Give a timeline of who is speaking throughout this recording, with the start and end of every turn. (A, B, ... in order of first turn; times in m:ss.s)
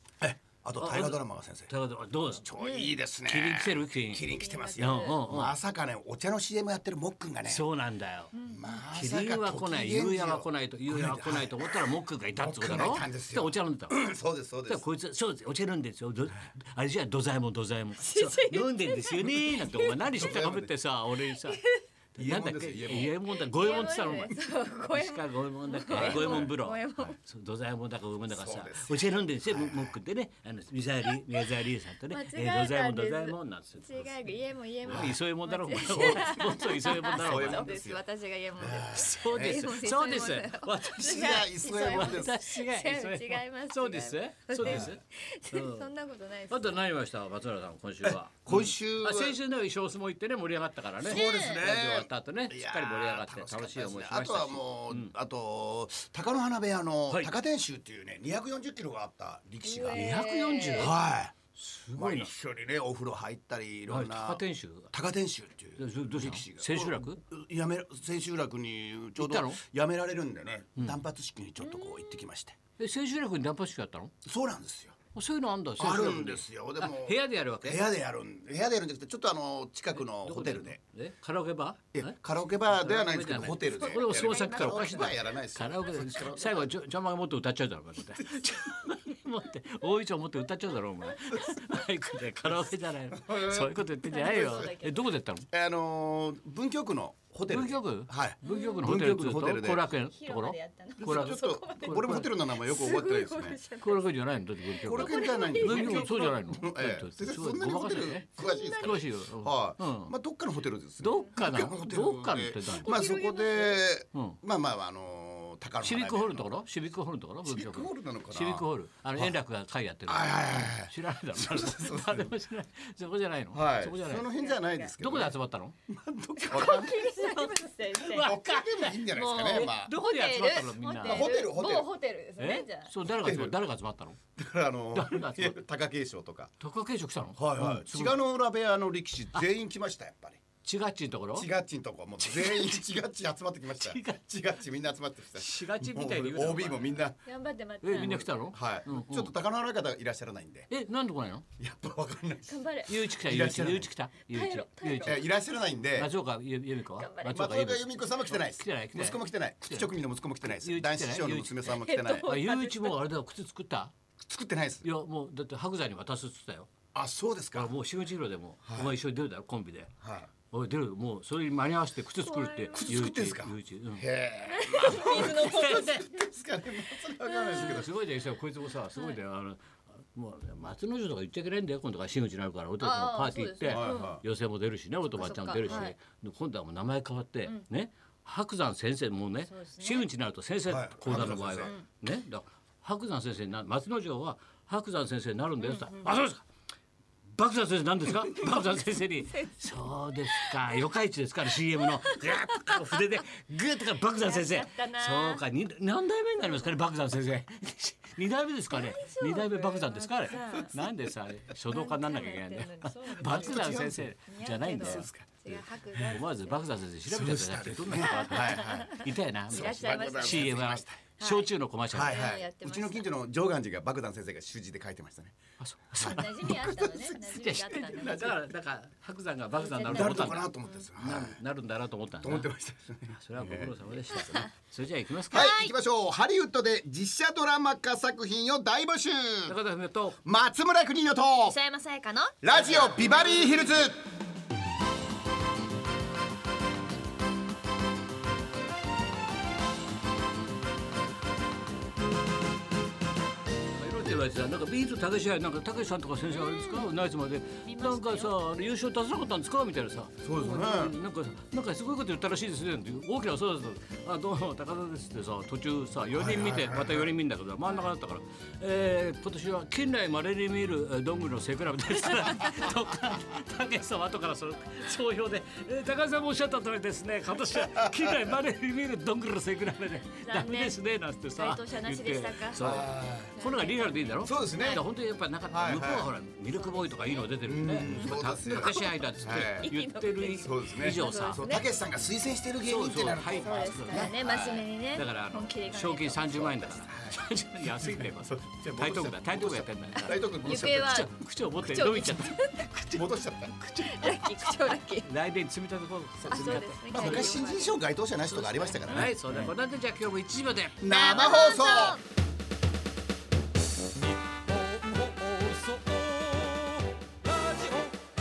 0:00.2-0:01.7 A
0:00.8-0:02.5 B
0:02.3-0:07.6 A
0:02.6-0:03.0 C
0:03.2-0:05.5 B
0:04.3-0:05.2 C
0:07.4-0:08.3 B
0:08.3-0:08.8 C
0:08.4-0:14.8 A
0:08.9-0:14.0 B
0:14.7-0:21.6 B
0:18.0-0:20.1 C
0:20.1-0:20.7 A
0:21.3-0:21.8 C
0:22.1-0:34.1 B
0:22.2-0:23.1 A
0:23.3-0:27.2 C
0:25.9-0:26.6 A
0:28.3-0:30.0 A
0:31.1-0:31.5 C
0:32.1-0:46.8 C
0:34.8-0:37.7 B
0:34.9-0:35.2 A
0:35.9-0:38.0 A
0:38.6-0:39.7 A
0:38.9-0:45.9 B
0:40.9-0:42.4 A
0:44.6-0:45.0 A
0:46.5-0:55.1 B
0:48.0-0:49.4 A
0:51.0-1:00.2 A
0:51.0-0:51.7 C
0:59.6-1:00.9 C
0:59.9-1:00.9 B
1:00.7-1:01.3 A
1:01.5-1:02.3 B
1:01.9-1:12.6 A
1:03.9-1:04.9 B
1:05.8-1:07.2 B
1:09.2-1:09.6 B
1:11.6-1:12.2 C
1:12.8-1:14.1 B
1:14.2-1:15.0 A
1:15.1-1:17.8 B
1:15.8-1:20.8 A
1:19.9-1:35.5 B
1:21.9-1:26.7 A
1:23.7-1:25.2 C
1:28.2-1:28.6 A
1:33.1-1:34.7 A
1:34.1-1:35.1 C
1:35.5-1:39.9 A
1:37.5-1:42.3 B
1:38.4-1:38.9 C
1:39.9-1:46.6 C
1:41.0-1:43.6 A
1:43.8-1:50.1 B
1:44.8-1:56.5 A
1:48.4-1:49.1 C
1:51.0-1:53.0 B
1:51.0-1:51.4 C
1:52.8-1:53.8 C
1:54.1-1:54.4 B
1:55.8-2:04.3 B
1:57.5-1:59.4 A
2:00.1-2:02.3 A
2:03.5-2:05.4 A
2:04.1-2:04.9 C
2:05.0-2:05.7 B
2:05.9-2:07.1 A
2:06.4-2:08.4 C
2:06.5-2:11.3 B
2:08.1-2:10.0 A
2:09.0-2:12.9 C
2:11.0-2:11.9 A
2:12.4-2:14.2 B
2:13.2-2:13.6 A
2:14.4-2:16.5 A
2:14.9-2:15.6 B
2:16.6-2:18.2 B
2:17.4-2:20.4 A
2:20.6-2:21.5 B
2:21.3-2:27.2 A
2:22.2-2:22.8 B
2:23.8-2:24.2 B
2:25.4-2:27.0 B
2:27.2-2:28.3 C
2:27.8-2:29.3 B
2:28.0-2:30.7 A
2:30.7-2:31.4 B
2:31.6-2:33.9 A
2:32.5-2:32.9 C
2:32.9-2:35.2 B
2:34.3-2:35.2 C
2:35.0-2:36.1 A
2:35.9-2:41.6 B
2:36.9-2:37.4 C
2:37.2-2:42.3 A
2:41.6-2:43.0 C
2:42.2-2:43.9 B
2:44.2-2:44.9 A
2:44.8-2:46.7 B
2:46.9-2:47.7 A
2:47.5-2:49.9 B
2:48.6-2:48.9 A
2:50.0-2:50.3 A
2:50.5-2:54.0 B
2:52.2-2:53.2 C
2:52.7-2:57.9 A
2:54.4-2:56.2 C
2:54.8-2:56.0 B
2:57.2-2:57.8 C
2:57.5-3:16.4 B
2:58.9-2:59.2 C
3:02.8-3:04.2 C
3:03.6-3:04.2 A
3:05.1-3:05.9 C
3:05.6-3:05.9 A
3:09.5-3:10.1 C
3:10.7-3:11.7 A
3:11.2-3:11.8 C
3:15.6-3:16.1 C
3:17.3-3:42.2 B
3:18.4-3:19.6 C
3:20.2-3:20.8 C
3:21.8-3:23.1 C
3:24.1-3:25.4 C
3:26.4-3:26.7 C
3:28.7-3:30.9 C
3:31.6-3:36.6 C
3:33.1-3:34.0 A
3:34.7-3:35.3 A
3:37.1-3:41.0 A
3:38.0-3:40.5 C
3:41.2-3:43.1 C
3:41.9-3:45.4 A
3:45.6-3:46.5 B
3:45.9-3:47.9 A
3:46.0-3:48.4 C
3:47.3-3:52.5 B
3:49.6-3:50.8 C
3:49.8-3:51.4 A
3:52.2-3:54.3 A
3:53.1-3:55.5 B
3:55.3-3:55.7 C
3:55.3-3:59.5 A
3:59.5-4:00.2 B
4:00.2-4:01.6 A
4:01.4-4:02.4 C
4:02.4-4:04.0 A
4:02.5-4:03.7 B
4:13.7-4:51.5 B
4:16.2-4:16.9 C
4:17.6-4:18.4 C
4:20.2-4:20.9 A
4:26.1-4:27.1 A
4:37.5-4:38.3 A
4:40.1-4:44.8 C
4:42.6-4:43.3 A
4:44.2-4:44.8 A
4:45.5-4:46.1 A
4:46.5-4:51.6 C
4:47.4-4:49.7 A
4:50.4-4:54.6 A
4:52.6-4:54.2 B
4:53.0-4:56.7 C
4:54.9-5:03.0 B
4:56.4-5:01.0 A
5:00.1-5:02.8 C
5:02.9-5:03.6 A
5:03.6-5:07.4 B
5:03.6-5:05.1 C
5:06.3-5:07.8 C
5:06.9-5:09.5 A
5:08.3-5:11.2 B
5:10.8-5:12.0 A
5:10.8-5:12.0 C
5:15.2-5:16.1 B